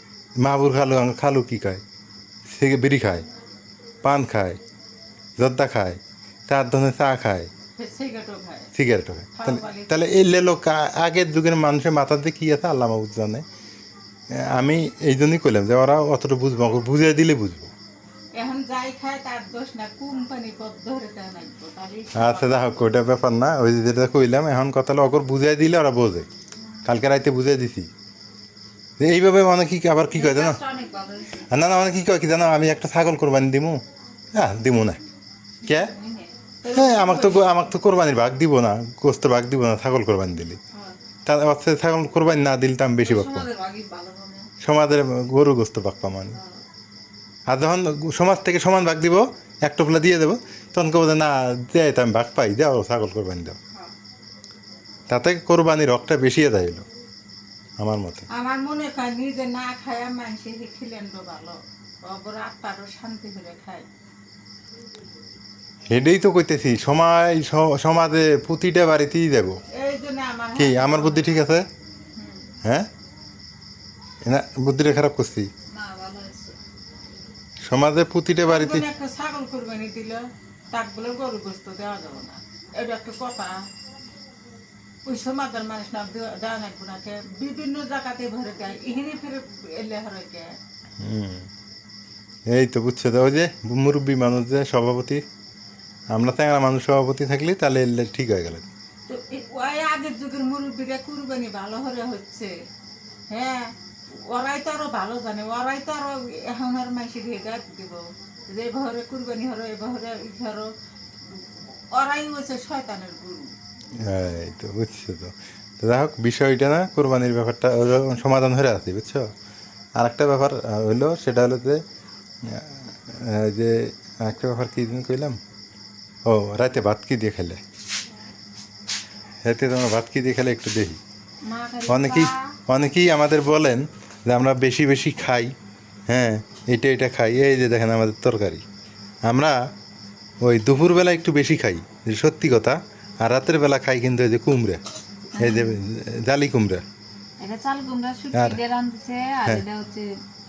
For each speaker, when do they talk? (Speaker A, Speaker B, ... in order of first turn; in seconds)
Speaker A: 0.4-1.8, 2.5-3.3, 4.0-4.6, 5.4-7.5, 8.8-13.4, 14.3-17.7, 22.1-26.3, 26.9-27.9, 29.0-30.6, 31.5-33.8, 34.3-35.0, 35.6-35.9, 36.7-40.6, 41.3-43.5, 44.6-46.4, 47.5-53.6, 55.1-56.9, 57.8-58.3, 65.9-69.6, 70.6-71.7, 74.2-75.5, 77.7-78.9, 91.0-91.5, 92.5-95.2, 96.1-98.7, 114.0-119.3, 120.0-121.8, 122.4-125.4, 126.3-127.6, 129.4-131.0, 131.9-135.5, 136.1-138.6, 139.2-139.6, 140.4-144.8, 145.4-146.8, 148.3-148.6
Speaker B: 7.8-8.7, 9.4-10.1, 18.4-22.8, 36.6-37.5, 58.3-63.9, 69.7-71.5, 78.4-83.6, 85.0-90.5, 99.1-102.5, 103.3-110.7, 111.3-113.5, 131.8-132.3
Speaker C: 26.6-26.9, 30.1-31.5, 35.6-36.4, 43.0-44.5, 46.3-46.6, 72.2-72.5, 75.7-76.6, 131.5-132.1, 145.3-145.8, 147.4-150.2